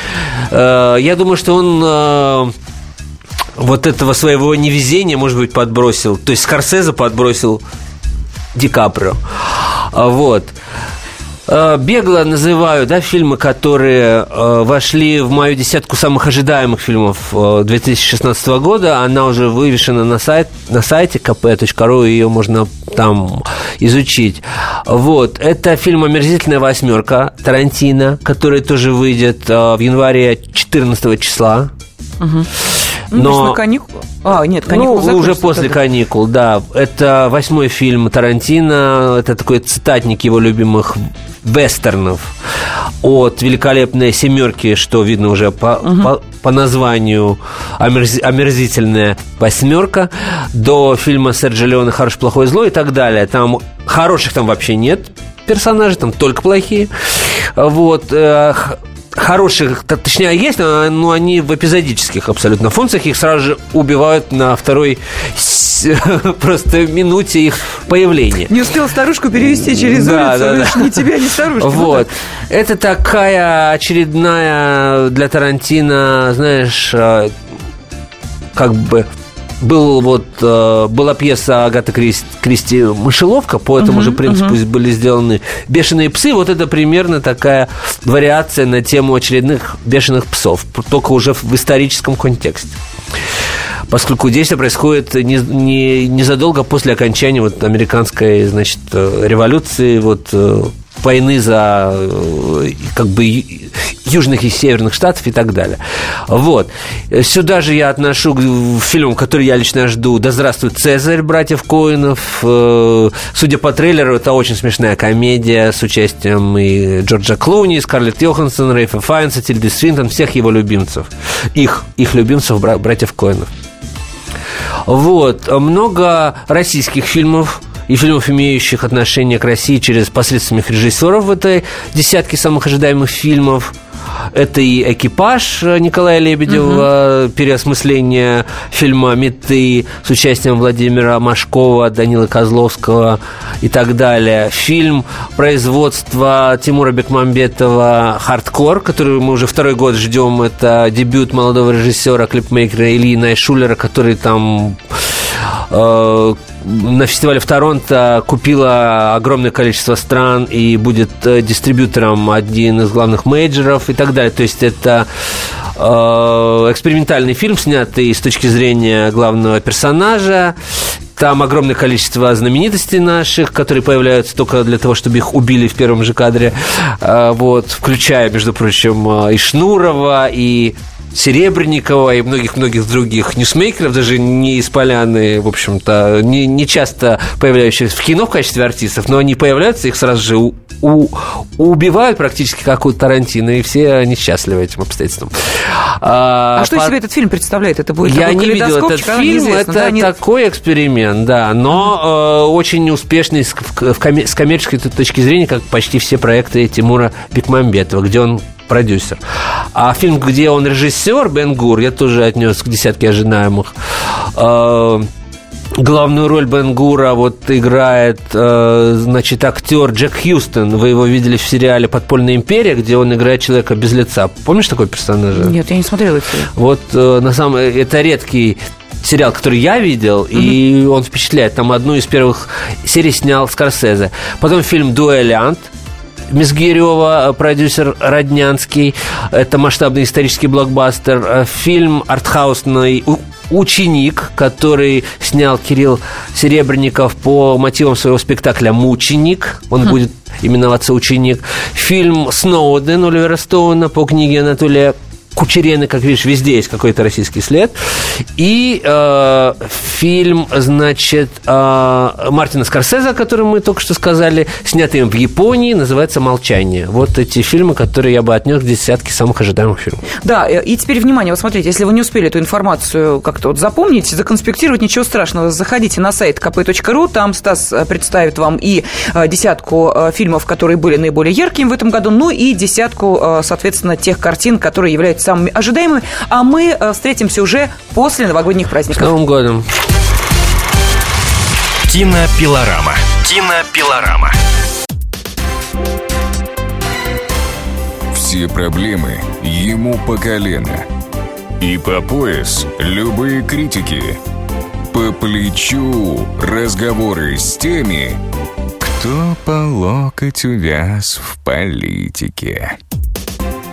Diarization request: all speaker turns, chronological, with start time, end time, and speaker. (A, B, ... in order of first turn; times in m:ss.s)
0:00.5-0:02.5 A
0:03.6-0:07.6 A
0:08.5-0:10.5 A
0:11.5-0:31.7 A
0:32.2-0:32.5 B
0:33.1-0:33.6 A
0:33.1-0:35.8 B
0:34.7-0:42.3 A
0:43.0-1:08.5 A
0:45.8-0:46.1 B
1:08.5-1:12.1 B
1:09.6-1:10.9 A
1:11.6-1:17.3 A
1:18.5-1:19.1 A
1:19.6-1:32.8 A
1:23.8-1:24.6 B
1:33.9-2:03.5 A
2:04.8-2:13.7 A
2:14.3-2:35.0 A
2:16.5-2:16.9 B
2:35.7-2:45.1 A
2:45.8-2:50.5 A
2:51.2-3:16.9 A
3:16.6-3:20.1 B
3:18.0-3:29.2 A
3:29.7-3:35.1 A
3:35.8-3:45.5 A
3:45.3-3:46.5 B
3:46.5-3:55.7 A
3:56.3-4:30.0 A
4:30.2-4:49.1 B
4:48.9-4:49.7 A
4:51.8-4:54.4 C
4:58.1-5:00.9 D
5:01.6-5:04.2 D
5:04.9-5:08.2 D
5:08.8-5:12.8 D